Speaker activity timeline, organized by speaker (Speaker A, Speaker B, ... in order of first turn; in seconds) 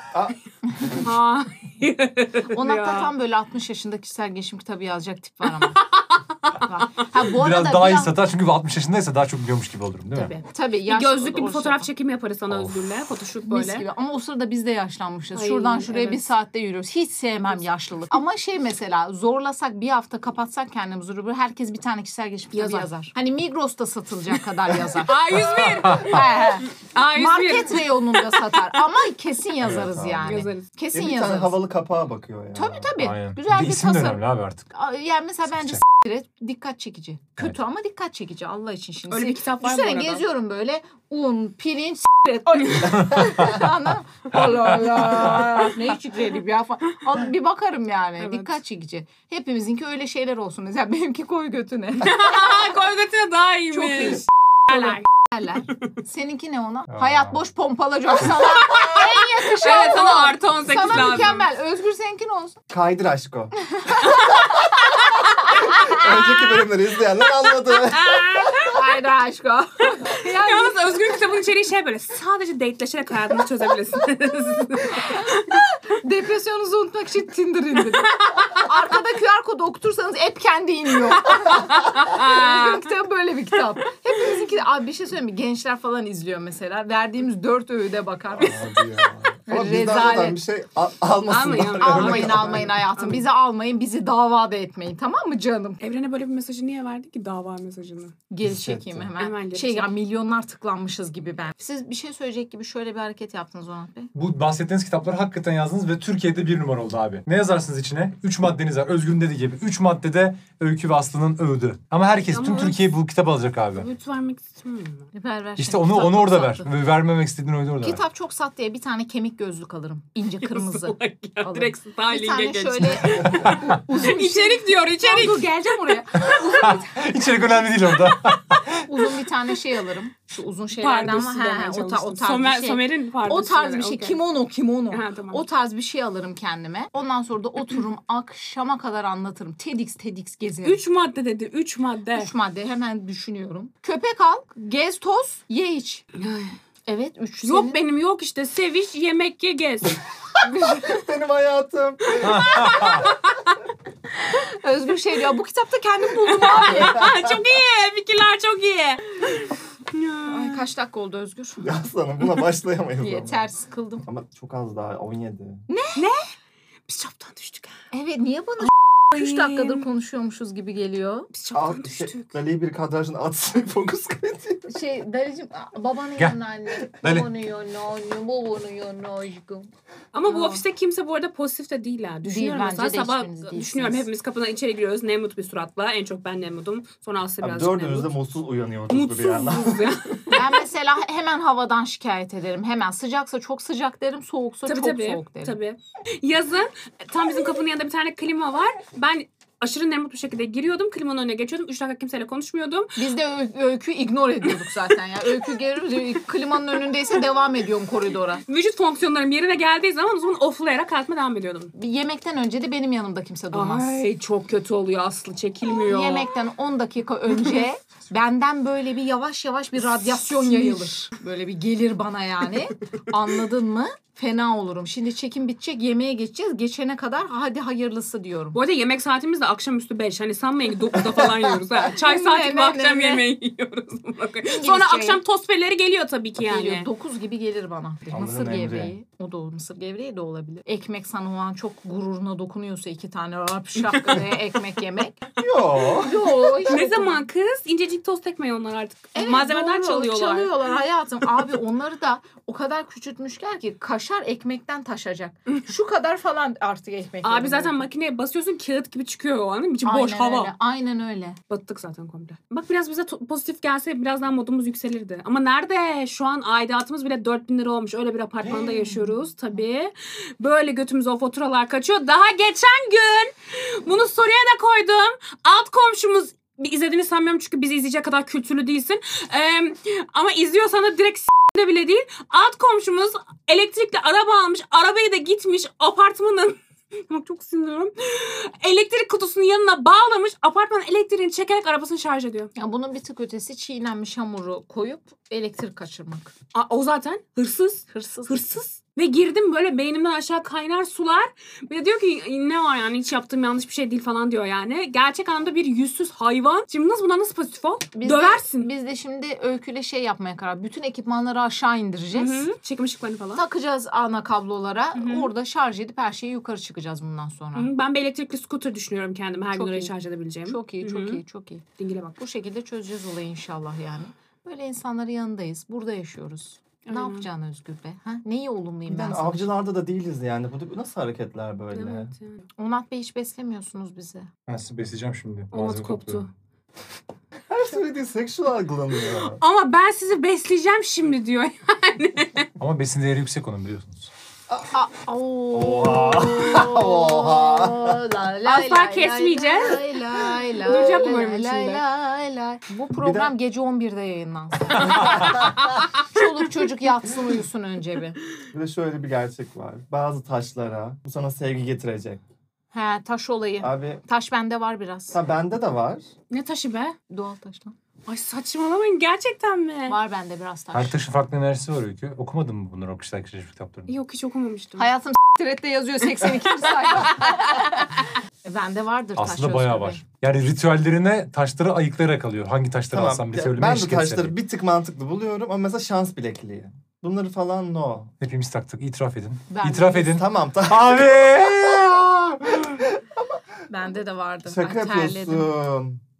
Speaker A: 1.0-3.1, 5.7-6.7, 10.2-13.8, 15.3-16.3, 22.5-22.9, 25.0-28.4, 30.2-30.6, 39.1-40.2, 42.6-43.0, 48.2-48.5, 52.0-55.0, 58.3-61.5, 64.0-65.6, 67.9-68.8, 70.0-75.6, 78.1-78.7, 81.2-82.8, 89.5-90.1, 91.3-93.2, 95.8-98.1, 99.2-99.9, 112.2-112.9, 113.7-115.1, 120.4-125.5, 128.1-128.6, 130.8-134.2, 134.9-135.4, 140.6-142.3, 146.2-146.5, 147.4-150.0, 152.1-153.6, 156.3-160.6, 165.9-166.3, 166.9-167.8, 168.6-169.9, 171.3-172.3, 180.1-188.1, 188.9-190.4, 194.7-203.0, 208.4-211.7, 213.5-216.3, 220.2-221.0, 228.5-236.9, 243.8-244.3, 246.6-250.5, 257.2-260.5, 261.5-292.5, 296.5-308.7, 312.1-313.4, 314.9-315.3, 317.5-321.2, 321.8-322.2, 326.9-327.2, 331.7-332.4, 335.5-336.3, 339.4-342.5, 348.4-349.8, 350.6-351.8, 354.8-356.0, 366.3-366.9, 368.1-370.0, 373.9-374.9, 376.8-377.3
Speaker B: 2.5-5.8, 6.6-8.2, 10.4-11.9, 13.5-31.6, 32.5-52.7, 53.7-62.6, 65.7-66.0, 68.6-71.2, 74.8-88.8, 89.5-90.4, 91.8-95.8, 98.3-104.1, 115.1-116.7, 117.8-127.0, 128.8-140.8, 142.1-146.0, 146.8-147.8, 150.4-151.0, 154.2-157.1, 160.2-161.6, 163.0-164.0, 165.7-166.1, 167.9-171.3, 174.7-179.7, 180.2-180.6, 182.2-184.1, 190.3-195.6, 202.9-208.4, 211.7-214.0, 215.6-228.6, 231.9-233.2, 234.4-235.2, 236.4-245.2, 246.0-247.2, 249.1-257.9, 259.8-261.4, 268.5-269.1, 292.5-296.3, 297.9-298.4, 307.9-312.5, 313.3-317.7, 319.5-319.9, 320.4-321.6, 322.2-329.5, 332.6-334.3, 344.7-358.2, 362.7-365.2, 367.1-367.7, 369.9-371.0, 374.8-380.0, 389.5-390.2, 393.7-395.5
Speaker C: 7.3-10.3, 12.5-12.9, 33.0-34.7, 35.5-35.8, 44.8-45.4, 57.0-57.3, 104.1-113.8, 115.6-118.0, 123.4-123.7, 126.2-128.8, 152.2-153.1, 177.0-177.3, 334.5-336.2, 342.6-344.1, 370.7-373.9, 379.2-384.3, 388.2-392.7
Speaker D: 30.9-32.9, 62.7-64.2, 65.5-68.5, 88.3-92.7, 98.4-99.1, 150.6-152.9, 161.6-163.4, 164.0-165.7, 171.5-174.7, 187.4-190.1, 238.1-238.9, 245.4-246.7, 328.9-332.1, 337.5-339.4, 345.5-348.0, 353.0-353.3, 355.2-355.5, 358.5-362.2, 363.6-364.0, 365.1-366.0, 382.9-388.1, 390.0-392.0, 392.9-393.4, 394.5-396.0